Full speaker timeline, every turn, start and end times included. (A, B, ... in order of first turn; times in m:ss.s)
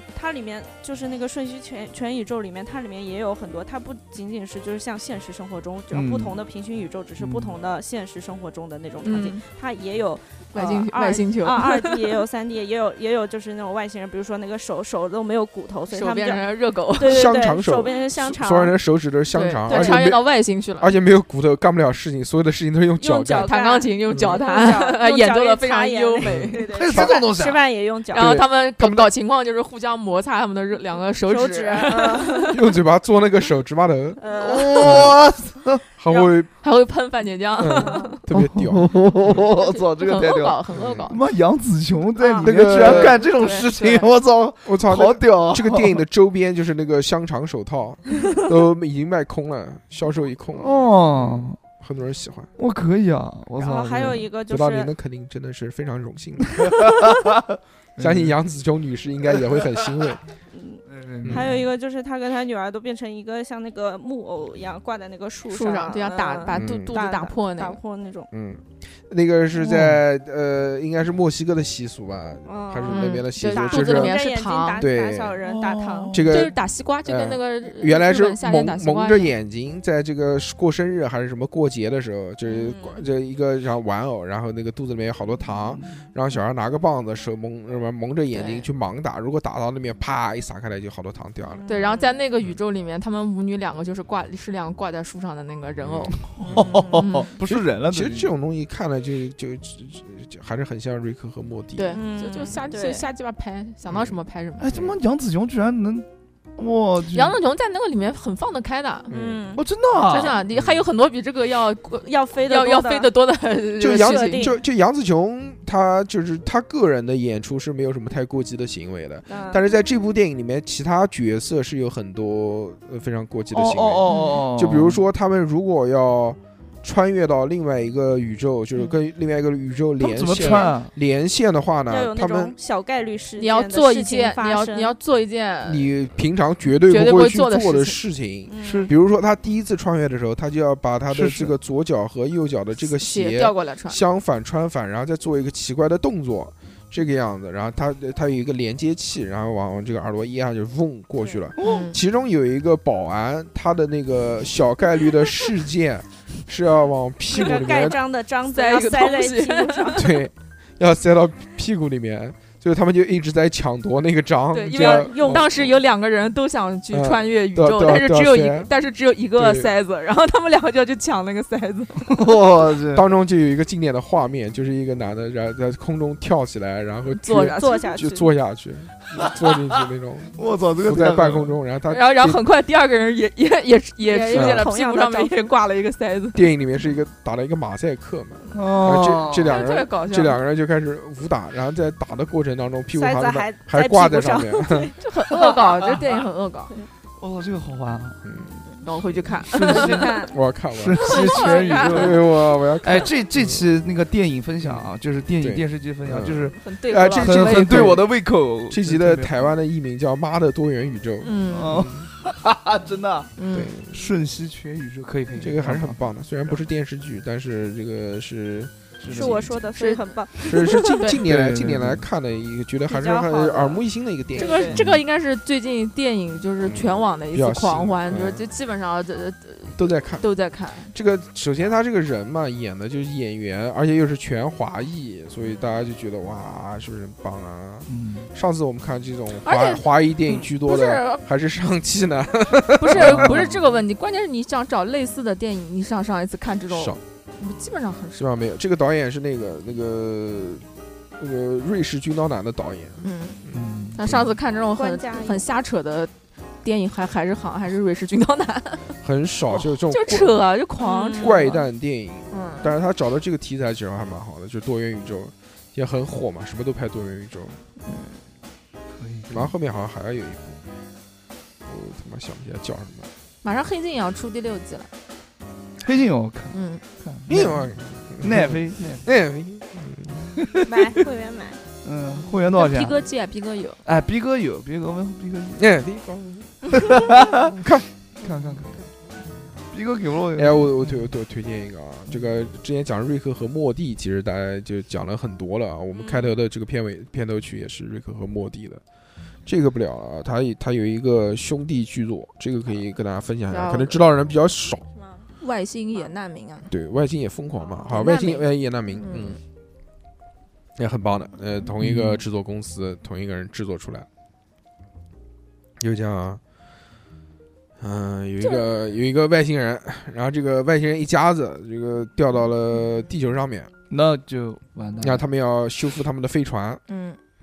0:00.1-0:18.8 A
0:05.9-0:06.4 B
0:07.2-0:07.6 B
0:09.0-0:09.4 C
0:10.5-0:12.1 C
0:15.9-0:17.4 C
0:17.0-0:20.3 D
0:19.3-0:20.9 C
0:19.7-0:20.0 A
0:20.8-0:23.5 D
0:23.0-0:28.4 A
0:23.3-0:27.0 C
0:24.1-0:24.4 D
0:26.2-0:27.1 D
0:26.7-0:27.6 B
0:28.1-0:32.6 C
0:28.1-0:29.1 D
0:31.2-0:32.6 A
0:32.5-0:34.2 D
0:34.2-0:35.1 A
0:34.4-0:35.8 B
0:34.8-0:35.1 D
0:36.0-0:36.5 D
0:36.6-0:38.2 C
0:37.6-0:39.4 D
0:37.8-0:38.2 A
0:38.3-0:46.0 B
0:39.6-0:41.2 C
0:40.7-0:41.1 D
0:42.2-0:42.5 A
0:42.4-0:43.3 D
0:42.8-0:44.0 C
0:44.6-0:52.5 D
0:50.6-0:51.6 B
0:52.6-0:54.3 B
0:53.6-0:54.9 A
0:54.5-0:56.8 D
0:56.7-0:58.4 B
0:58.0-1:00.2 D
1:00.5-1:08.3 A
1:00.9-1:01.7 B
1:01.2-1:01.5 D
1:05.5-1:07.8 C
1:06.5-1:06.9 D
1:08.3-1:14.2 D
1:09.6-1:10.0 B
1:12.5-1:16.3 A
1:12.9-1:14.8 C
1:14.8-1:15.4 D
1:15.4-1:16.5 B
1:16.1-1:31.7 D
1:16.3-1:19.3 C
1:22.5-1:23.0 A
1:25.7-1:26.0 B
1:28.3-1:28.7 C
1:31.5-1:32.2 A
1:31.7-1:37.3 C
1:35.8-1:36.8 D
1:36.4-1:38.3 B
1:36.6-1:37.1 A
1:37.4-1:42.0 D
1:41.8-1:44.7 C
1:41.9-1:43.1 A
1:43.9-1:44.2 D
1:44.6-1:47.4 B
1:44.7-1:45.0 D
1:47.1-1:49.1 C
1:49.1-1:49.4 D
1:49.1-1:49.7 A
1:49.6-1:50.4 B
1:50.0-1:54.5 C
1:50.5-1:50.8 D
1:52.0-1:53.1 A
1:53.8-2:12.5 D
1:53.9-1:54.6 A
1:59.3-1:59.6 A
2:03.5-2:05.0 B
2:04.1-2:04.4 C
2:10.0-2:10.9 B
2:10.4-2:10.7 A
2:11.9-2:15.0 A
2:13.4-2:15.9 C
2:15.7-2:38.0 D
2:16.9-2:18.0 C
2:18.5-2:18.9 A
2:18.6-2:18.9 B
2:21.1-2:21.5 B
2:22.8-2:24.0 C
2:31.2-2:31.4 A
2:31.6-2:31.9 B
2:31.6-2:32.0 C
2:37.3-2:40.1 A
2:38.5-2:40.1 C
2:40.0-2:45.7 D
2:44.5-2:52.2 C
2:44.7-2:45.5 A
2:46.9-2:48.7 D
2:49.4-2:49.7 D
2:52.1-2:53.0 B
2:52.9-3:02.4 D
2:57.1-2:57.9 C
2:57.6-2:58.3 A
2:59.2-2:59.4 B
3:00.4-3:01.6 B
3:01.9-3:06.5 C
3:04.0-3:05.4 A
3:04.3-3:04.7 D
3:06.3-3:14.9 D
3:08.5-3:09.6 B
3:09.5-3:10.4 C
3:12.9-3:15.5 A
3:15.0-3:16.8 C
3:17.2-3:18.2 B
3:18.2-3:19.3 D
3:18.8-3:20.3 C
3:19.4-3:20.2 B
3:19.5-3:20.3 A
3:20.3-3:23.7 D
3:20.7-3:26.6 B
3:21.0-3:22.2 C
3:21.5-3:22.0 A
3:24.6-3:32.1 D
3:26.5-3:28.0 C
3:27.2-3:29.5 B
3:31.2-3:31.9 C
3:31.5-3:33.4 B
3:33.4-3:33.7 C
3:33.5-3:34.1 D
3:33.9-3:36.0 B
3:35.4-3:39.4 D
3:39.0-3:39.6 B
3:39.1-3:41.0 A
3:39.8-3:41.2 C
3:40.4-3:44.9 D
3:41.2-3:42.0 B
3:42.9-3:43.8 A
3:44.3-3:44.8 A
3:44.4-3:50.9 C
3:44.8-3:45.0 B
3:46.6-3:48.4 D
3:49.7-3:50.3 D
3:50.9-4:03.6 D
3:57.9-3:58.3 B
3:59.4-4:01.2 C
4:02.8-4:08.2 C
4:02.9-4:03.6 B
4:06.7-4:07.0 D
4:08.2-4:10.7 D
4:11.2-4:14.3 D
4:13.0-4:13.4 C
4:13.5-4:14.3 B
4:13.9-4:16.1 C
4:14.7-4:15.5 A
4:16.6-4:19.0 C
4:19.0-4:20.4 D
4:19.6-4:21.6 C
4:20.8-4:21.5 A
4:21.2-4:27.6 D
4:22.3-4:22.7 C
4:27.8-4:28.2 C
4:29.0-4:29.5 B
4:29.3-4:30.6 D
4:31.7-4:33.1 D
4:33.4-4:34.9 C
4:35.8-4:39.1 B
4:36.5-4:36.8 C
4:37.3-4:40.4 D
4:40.4-4:40.7 B
4:40.6-4:41.6 A
4:41.8-4:43.0 B
4:42.5-4:43.8 C
4:43.8-4:45.6 B
4:45.6-4:47.9 D
4:46.9-4:47.2 B
4:48.2-4:48.8 B
4:49.7-4:51.1 B
4:50.4-4:58.8 D
4:55.9-4:56.3 A
4:59.5-5:04.9 D
5:03.5-5:04.0 C
5:05.0-5:05.3 A
5:05.4-5:06.7 C
5:06.7-5:09.4 D
5:07.9-5:09.4 C
5:10.8-5:14.1 D
5:11.8-5:12.2 B
5:15.8-5:16.4 D
5:17.8-5:23.7 D
5:18.4-5:18.7 C
5:23.9-5:25.2 B
5:25.0-5:26.8 D
5:26.9-5:27.2 C